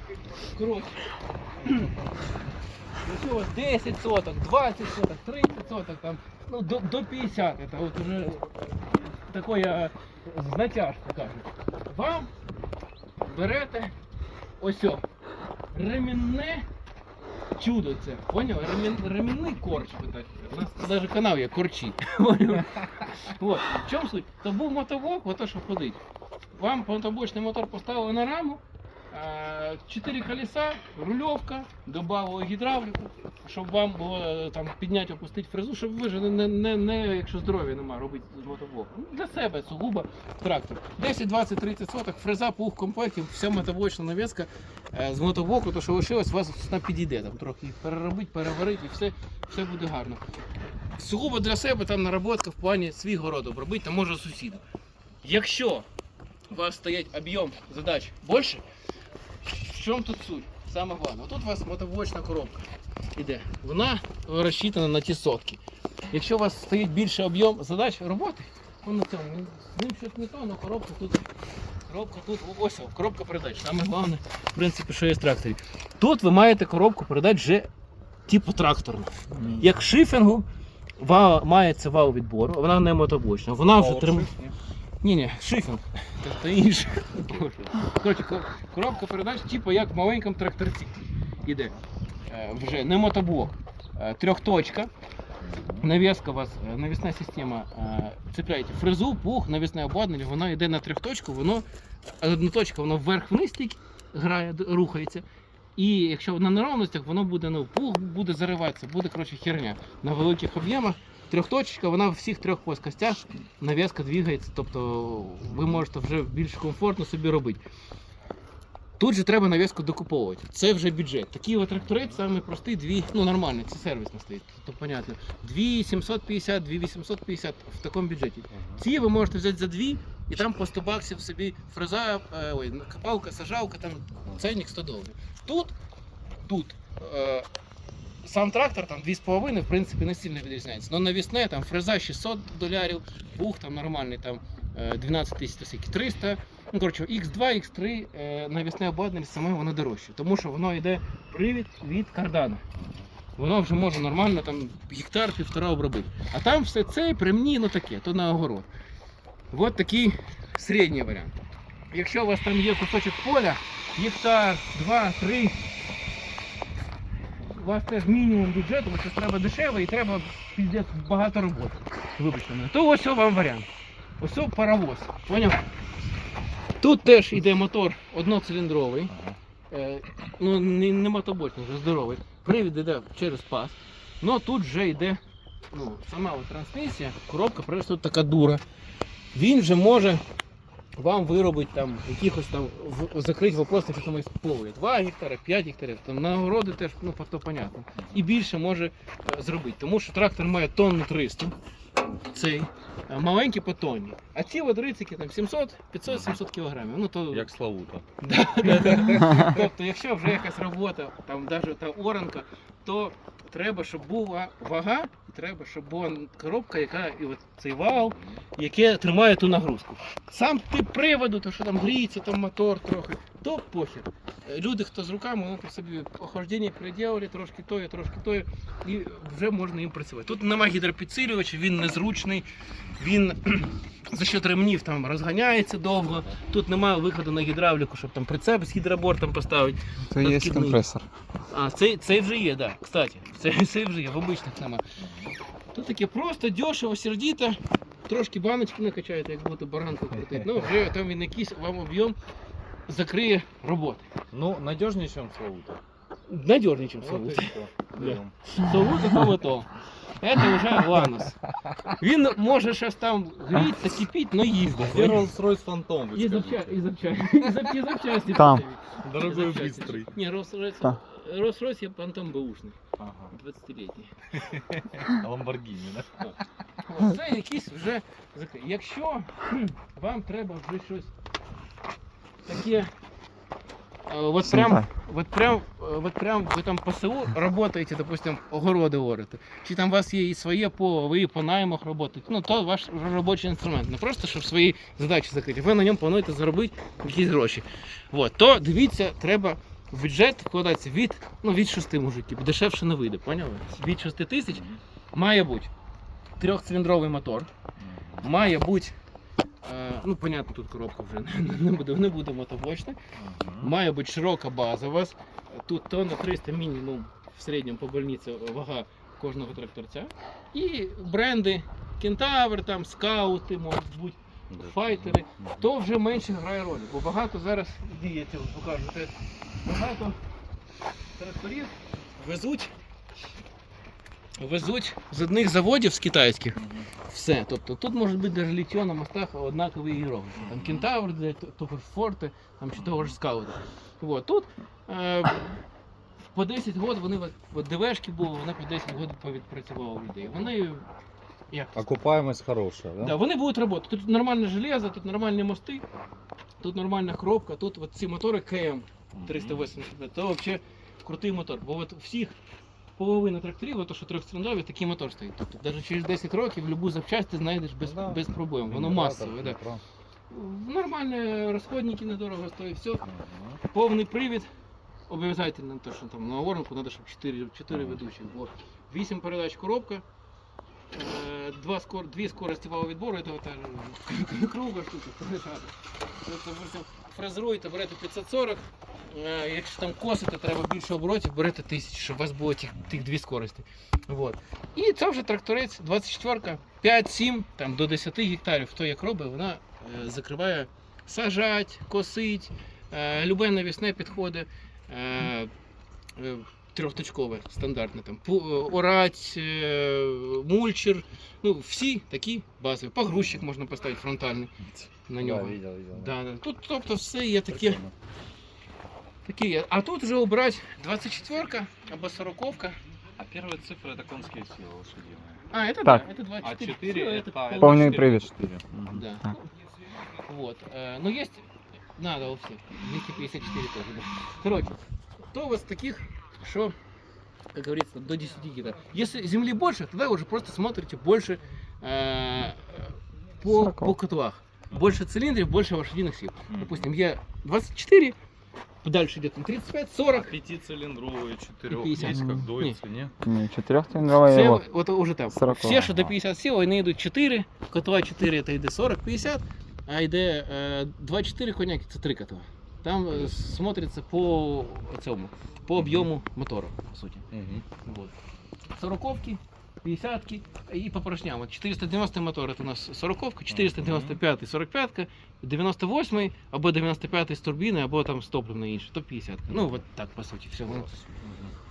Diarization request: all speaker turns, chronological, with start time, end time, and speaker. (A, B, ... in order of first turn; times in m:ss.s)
0:00.2-0:01.9 A
0:03.0-0:12.3 A
0:13.2-0:14.0 A
0:14.6-0:15.0 A
0:15.7-0:16.7 A
0:17.6-0:26.0 A
0:26.6-0:50.2 A
0:51.0-0:54.6 A
0:55.2-0:55.9 A
0:56.5-0:58.6 A
0:59.4-1:11.3 A
1:11.9-1:17.7 A
1:18.3-1:20.4 A
1:19.4-1:19.7 B
1:21.0-1:24.3 A
1:23.8-1:24.6 B
1:25.0-1:31.7 A
1:27.2-1:27.7 B
1:32.3-1:34.9 A
1:35.4-1:35.9 B
1:35.8-1:41.6 A
1:42.2-1:45.2 A
1:45.8-1:57.6 A
1:59.0-2:15.7 A
2:08.5-2:08.8 B
2:16.4-2:17.5 A
2:18.2-2:32.6 A
2:32.8-2:33.1 B
2:33.4-2:38.7 A
2:39.5-2:41.4 A
2:41.9-2:45.6 A
2:47.4-2:53.7 A
2:54.2-2:55.6 A
2:56.8-2:59.1 A
2:59.1-2:59.4 B
2:59.7-3:05.2 A
3:05.7-3:08.6 A
3:09.3-3:10.2 A
3:11.0-3:21.6 A
3:18.0-3:18.2 B
3:22.3-3:27.5 A
3:26.1-3:26.3 B
3:27.3-3:28.1 B
3:28.2-3:52.5 A
3:28.6-3:29.5 B
3:37.9-3:38.4 B
3:53.0-4:00.8 A
4:00.1-4:01.1 C
4:01.5-4:04.8 A
4:05.0-4:05.4 B
4:05.7-4:12.2 A
4:12.9-4:14.0 A
4:14.3-4:15.8 B
4:16.3-4:21.4 A
4:17.0-4:18.4 B
4:22.0-4:25.3 A
4:24.8-4:26.8 B
4:26.1-4:32.8 A
4:28.3-4:28.6 C
4:29.0-4:30.1 B
4:33.0-4:33.3 B
4:33.3-4:34.1 A
4:34.3-4:36.2 B
4:36.2-4:41.1 A
4:42.4-4:42.9 A
4:44.1-5:05.7 A
4:44.5-4:44.8 C
5:04.5-5:04.8 B
5:06.4-5:07.5 A
5:07.8-5:08.2 B
5:08.2-5:09.0 A
5:09.6-5:13.0 A
5:13.2-5:13.7 B
5:13.6-5:30.2 A
5:24.5-5:25.6 B
5:31.2-5:32.7 A
5:34.4-5:45.6 A
5:36.6-5:36.9 B
5:40.4-5:40.9 B
5:42.8-5:43.1 B
5:46.3-5:50.8 A
5:51.5-5:51.8 A
5:51.8-5:53.2 B
5:53.0-5:55.8 A
5:56.6-6:02.4 A
5:59.2-5:59.6 B
6:03.0-6:09.6 A
6:07.8-6:09.8 B
6:10.3-6:13.0 A
6:13.0-6:13.6 B
6:13.6-6:14.5 A
6:15.1-6:20.0 A
6:17.7-6:18.0 B
6:20.9-6:45.5 A
6:46.2-6:54.5 A
6:53.1-6:53.4 B
6:54.8-6:56.1 B
6:55.1-6:57.8 A
6:57.5-6:57.9 B
6:59.2-7:02.8 A
7:03.2-7:05.4 B
7:05.5-7:08.2 A
7:06.4-7:09.0 B
7:07.6-7:08.3 C
7:08.9-7:09.4 A
7:10.2-7:16.7 A
7:17.5-7:28.2 A
7:23.4-7:24.0 C
7:24.7-7:25.0 B
7:26.5-7:26.9 B
7:28.8-7:30.3 A
7:30.1-7:33.1 B
7:31.7-7:32.8 A
7:32.1-7:32.5 C
7:33.2-7:34.6 C
7:34.0-7:47.3 A
7:35.3-7:36.1 C
7:45.8-7:46.1 B
7:47.3-7:47.6 B
7:47.8-7:48.1 A
7:48.7-8:00.9 A
7:53.5-7:54.2 B
8:00.8-8:01.5 B